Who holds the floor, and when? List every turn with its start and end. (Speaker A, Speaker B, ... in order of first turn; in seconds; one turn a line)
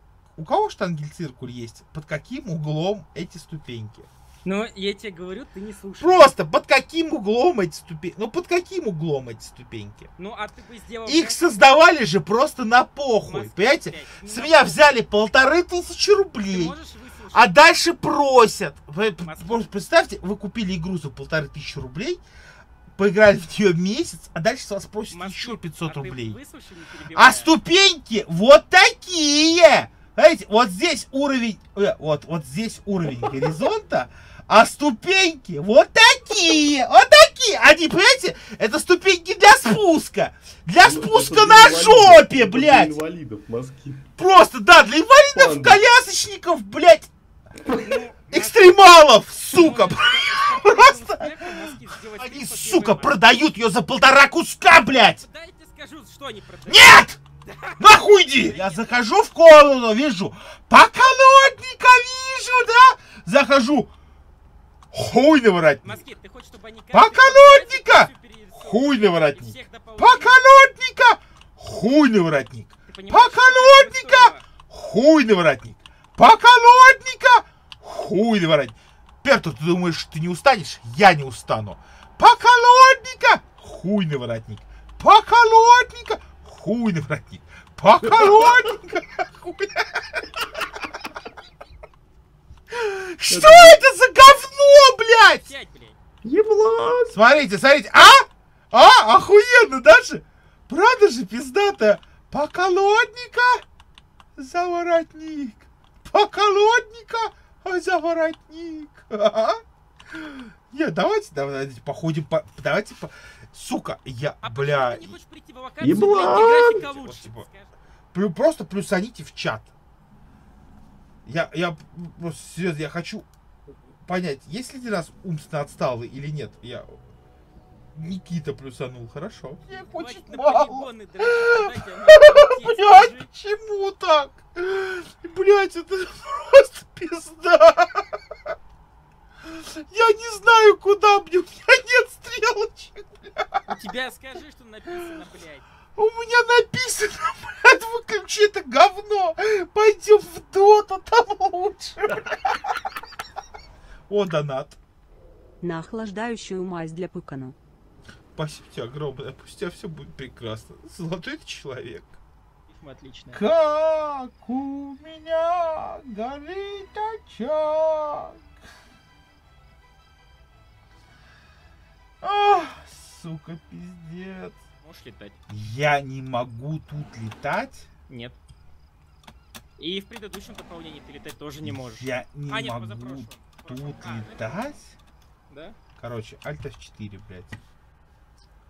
Speaker A: 0.3-4.1
Speaker B: 4.4-6.3
Speaker A: 6.0-10.1
Speaker B: 10.2-11.4
Speaker A: 11.1-16.8
Speaker B: 13.2-14.9
Speaker B: 16.5-17.5
Speaker A: 17.3-22.2
Speaker B: 19.2-19.7
Speaker A: 22.9-26.4
Speaker B: 25.1-27.5
Speaker A: 27.1-43.0
Speaker C: 40.8-44.0
Speaker A: 44.2-47.1
Speaker C: 45.3-45.7
Speaker B: 47.7-48.7
Speaker A: 48.3-51.5
Speaker B: 49.5-53.2
Speaker A: 52.2-55.2
Speaker B: 55.0-59.0
Speaker A: 56.6-57.2
Speaker A: 57.8-63.9
Speaker A: 64.9-66.1
Speaker B: 65.8-70.4
Speaker A: 66.9-90.4
Speaker B: 72.9-74.5
Speaker C: 88.1-88.7
Speaker A: 92.7-95.5
Speaker C: 93.3-93.8
Speaker B: 95.3-96.0
Speaker C: 96.2-97.2
Speaker A: 97.1-103.6
Speaker A: 104.3-109.6
Speaker A: 110.1-115.2
Speaker B: 114.4-117.7
Speaker C: 115.8-116.7
Speaker A: 116.0-117.5
Speaker A: 118.1-119.7
Speaker A: 121.2-123.3
Speaker A: 124.0-126.9
Speaker A: 127.9-138.1
Speaker B: 129.7-133.3
Speaker A: 139.4-143.8
Speaker B: 143.7-145.7
Speaker A: 145.9-152.6
Speaker A: 154.1-154.8
Speaker D: 155.6-157.6
Speaker A: 158.3-162.2
Speaker B: 162.7-163.4
Speaker A: 163.3-168.4
Speaker A: 172.2-174.5
Speaker B: 174.8-175.4
Speaker A: 175.5-177.9
Speaker B: 178.1-178.4
Speaker B: 179.8-184.8
Speaker A: 181.6-184.9
Speaker B: 185.5-185.8
Speaker A: 186.0-187.6